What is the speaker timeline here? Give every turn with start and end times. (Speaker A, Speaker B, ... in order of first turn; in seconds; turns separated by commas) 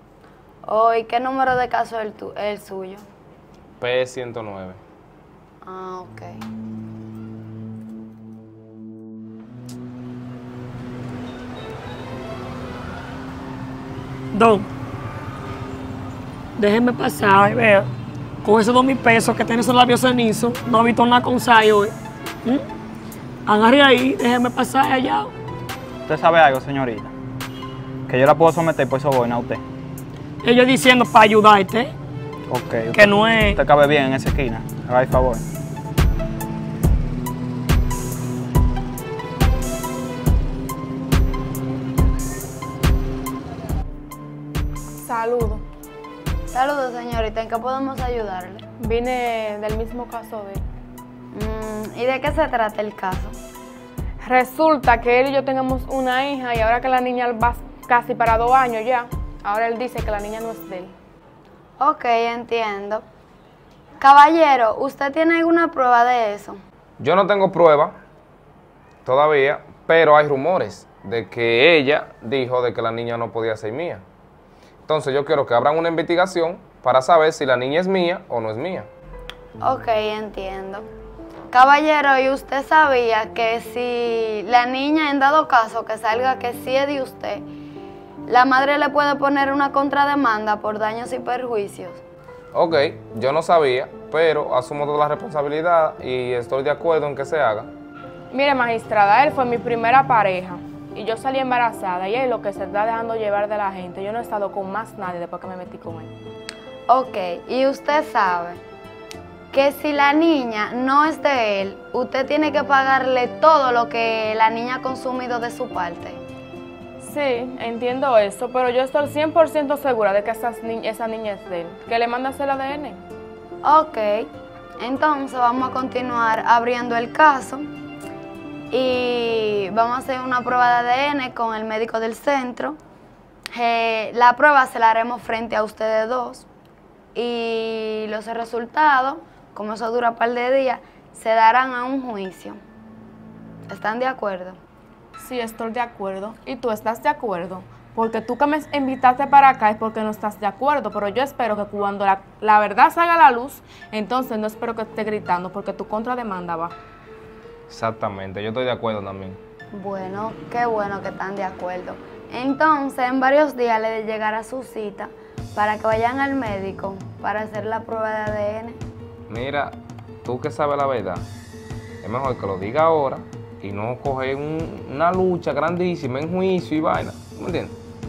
Speaker A: 0.7-3.0, Speaker B: 3.8-4.8, Speaker A: 5.6-6.3, Speaker C: 14.3-14.7, Speaker C: 16.6-17.9, Speaker C: 18.4-21.9, Speaker C: 23.5-25.3, Speaker D: 26.1-27.1, Speaker D: 28.1-29.6, Speaker C: 30.4-31.9, Speaker D: 32.5-35.4, Speaker C: 32.9-33.6, Speaker E: 45.0-45.6, Speaker A: 46.5-48.6, Speaker E: 48.8-50.6, Speaker A: 51.3-53.3, Speaker E: 54.2-60.9, Speaker A: 61.8-63.0, Speaker A: 64.0-66.6, Speaker B: 67.0-68.0, Speaker B: 69.0-74.0, Speaker B: 74.9-78.9, Speaker A: 79.6-80.8, Speaker A: 81.5-87.4, Speaker A: 88.3-92.0, Speaker B: 92.5-97.7, Speaker E: 98.3-106.1, Speaker A: 106.9-108.6, Speaker A: 109.5-116.2, Speaker E: 117.0-123.0, Speaker A: 123.6-127.7, Speaker A: 128.7-132.8, Speaker A: 133.5-136.5, Speaker A: 137.1-142.6, Speaker A: 143.7-144.6, Speaker E: 145.2-156.7, Speaker B: 157.7-159.4, Speaker A: 159.7-168.8, Speaker B: 169.3-171.2, Speaker B: 172.0-177.7